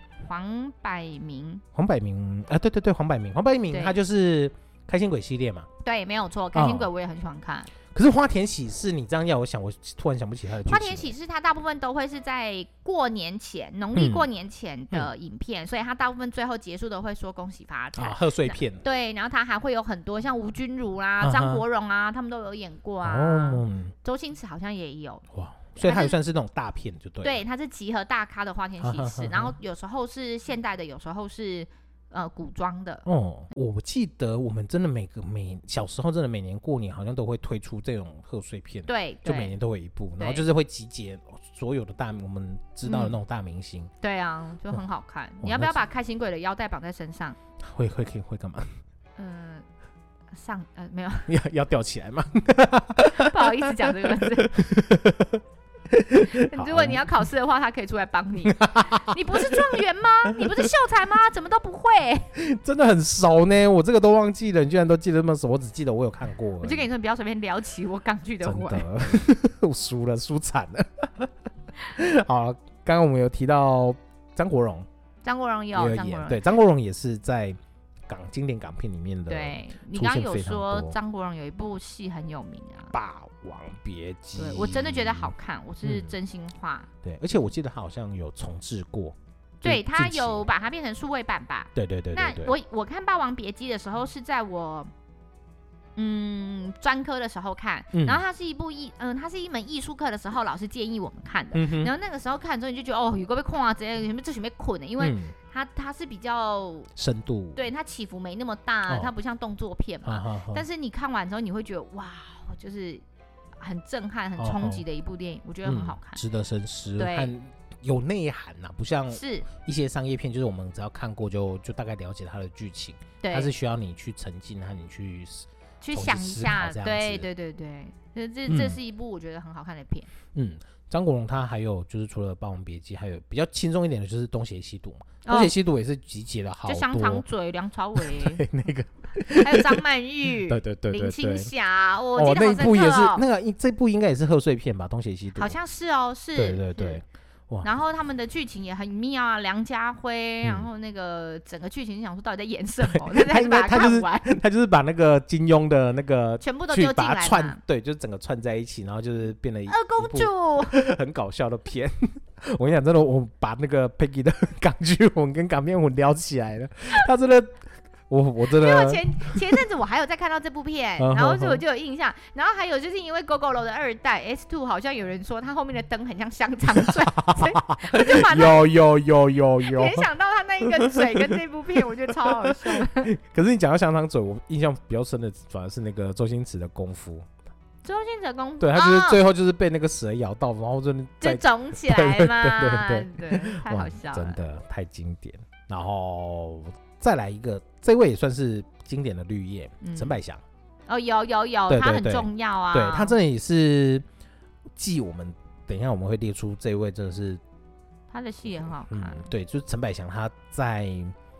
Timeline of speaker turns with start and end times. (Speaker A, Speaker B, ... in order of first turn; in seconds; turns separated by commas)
Speaker A: 0.2-1.6, Speaker B: 1.7-5.7, Speaker A: 3.7-4.0, Speaker A: 5.8-7.7, Speaker B: 6.5-6.9, Speaker B: 7.9-11.1, Speaker A: 10.6-25.2, Speaker B: 13.9-14.3, Speaker B: 18.0-18.8, Speaker B: 21.2-21.6, Speaker B: 23.0-23.9, Speaker B: 25.3-27.4, Speaker A: 25.8-26.1, Speaker A: 27.2-33.0, Speaker B: 28.8-29.5, Speaker B: 33.0-43.9, Speaker A: 38.9-39.5, Speaker A: 40.2-40.4, Speaker A: 42.8-43.1, Speaker A: 44.0-47.4, Speaker B: 45.4-45.8, Speaker B: 47.6-48.7, Speaker A: 49.2-49.6, Speaker A: 50.3-51.3, Speaker B: 51.3-57.1, Speaker A: 53.0-54.6, Speaker A: 56.3-62.3, Speaker B: 58.4-60.7, Speaker B: 62.3-66.9, Speaker A: 66.6-69.2, Speaker B: 68.4-71.3, Speaker B: 71.9-74.9, Speaker A: 75.2-76.4, Speaker B: 75.7-81.0, Speaker A: 79.3-82.9, Speaker B: 82.9-86.1, Speaker A: 84.3-86.9, Speaker B: 87.0-90.5, Speaker A: 89.6-94.9, Speaker B: 91.7-92.5, Speaker A: 96.0-106.9, Speaker B: 97.9-98.2, Speaker B: 101.5-101.9, Speaker B: 105.0-105.3, Speaker B: 106.9-107.6, Speaker A: 107.5-113.0, Speaker B: 110.0-110.6, Speaker A: 113.6-116.2, Speaker B: 114.4-114.8, Speaker B: 115.6-127.3, Speaker A: 117.0-117.3, Speaker A: 119.1-119.5, Speaker A: 123.2-123.5, Speaker A: 125.8-130.1, Speaker B: 128.5-128.8, Speaker B: 130.3-137.2, Speaker A: 135.2-135.5, Speaker A: 136.7-138.5, Speaker B: 137.9-141.5, Speaker A: 139.3-143.2, Speaker B: 142.1-145.6, Speaker A: 145.3-147.0, Speaker B: 146.3-147.7, Speaker A: 147.6-154.3, Speaker B: 152.8-169.2, Speaker A: 156.4-157.6, Speaker A: 159.7-160.8, Speaker A: 168.5-178.7, Speaker B: 171.0-171.6, Speaker B: 176.7-180.1, Speaker A: 179.6-183.1, Speaker B: 180.6-187.3, Speaker A: 187.8-189.2, Speaker B: 188.6-200.4, Speaker A: 191.2-194.4, Speaker A: 199.8-200.2, Speaker A: 200.9-203.2, Speaker B: 201.7-204.0, Speaker B: 204.8-207.4, Speaker A: 208.1-209.3, Speaker B: 208.8-211.2